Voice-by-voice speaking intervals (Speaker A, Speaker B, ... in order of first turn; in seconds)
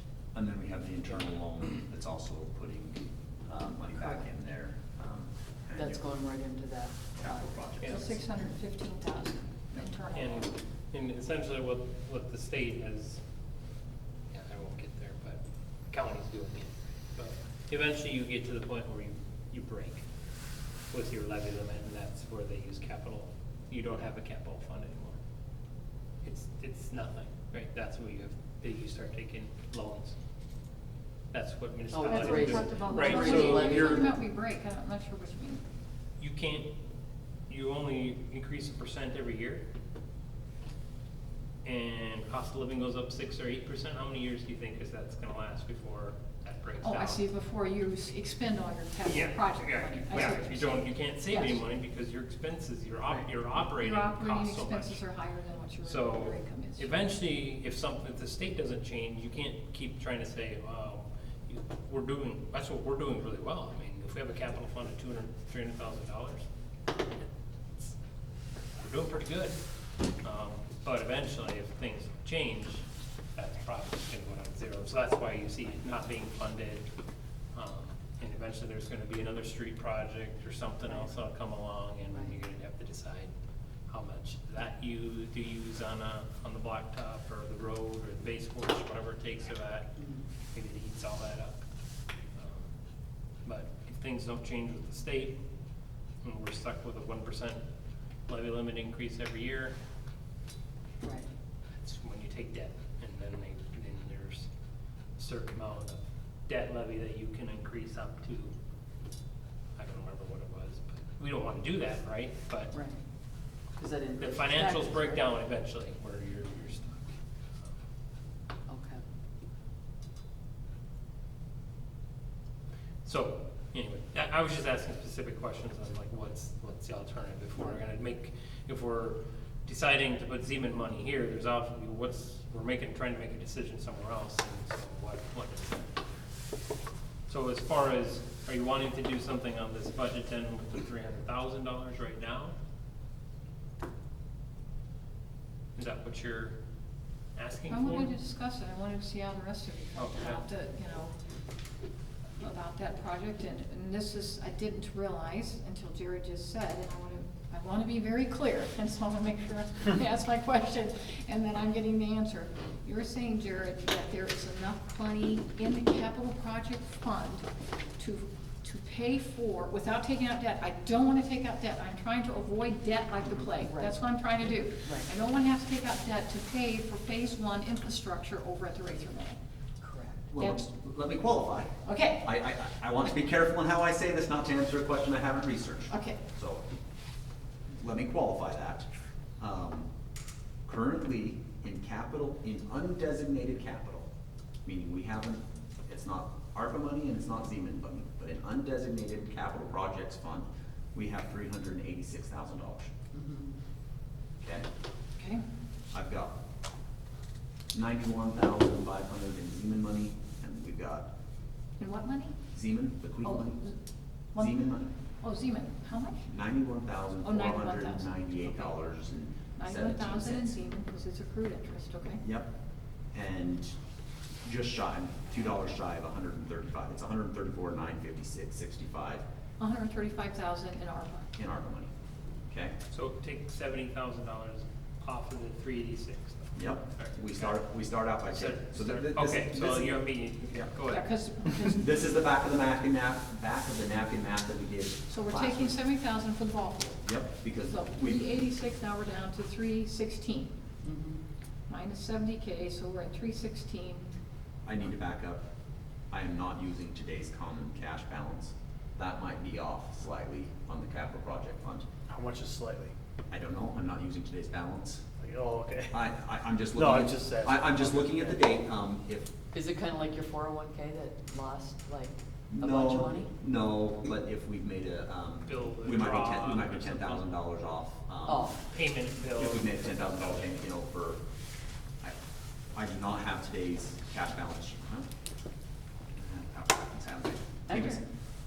Speaker A: 0.3-6.0, 7.2-8.2, 180.3-186.6, 187.8-188.9, 189.4-189.9, 190.7-194.1, 194.6-202.9, 204.4-204.7, 205.9-206.3, 207.7-211.1, 212.5-213.6, 214.3-214.9, 216.3-220.6, 222.2-222.5, 223.1-223.8, 224.4-229.2, 231.4-231.9, 232.5-232.8, 236.5-240.0, 241.5-245.8, 247.0-248.4, 254.7-255.4, 256.1-261.9, 263.3-265.0, 265.9-269.3, 272.5-278.5, 279.4-281.2, 282.8-285.1, 286.1-288.0
Speaker B: 5.8-7.5, 31.9-34.1, 90.0-90.2, 101.0-101.3, 112.7-113.0, 113.8-115.2, 118.7-119.0, 173.2-175.1, 179.8-180.2, 203.1-203.5, 250.8-251.2, 269.5-273.3, 278.2-278.6, 287.7-288.0
Speaker C: 7.8-8.1, 10.1-13.2, 14.3-20.0, 20.9-25.2, 26.2-30.2, 31.3-34.0, 36.2-36.7, 37.5-39.6, 41.6-47.2, 49.0-55.0, 55.8-66.5, 68.8-69.6, 70.2-76.8, 77.5-83.3, 83.9-89.9, 90.5-91.6, 92.3-92.7, 93.5-95.4, 96.2-97.6, 98.3-99.7, 101.8-104.5, 105.2-108.5, 109.8-112.7, 114.2-117.2, 123.0-135.9, 137.3-142.5, 145.8-146.6, 147.3-148.1, 149.9-150.4, 232.9-237.6, 238.2-241.1, 275.5-277.3, 278.7-280.5
Speaker D: 7.8-10.5, 32.1-35.6, 46.8-51.6, 53.7-56.9, 147.7-151.1, 152.4-167.4, 168.0-179.4, 180.4-180.6, 181.8-182.3, 185.9-186.2, 205.2-205.4, 211.8-212.4, 213.2-213.7, 215.2-216.3, 217.2-218.7, 219.6-222.2, 229.6-231.3, 240.8-241.9, 245.1-247.0, 247.7-250.5, 251.7-254.0
Speaker E: 262.1-262.9, 265.2-266.0, 266.7-268.4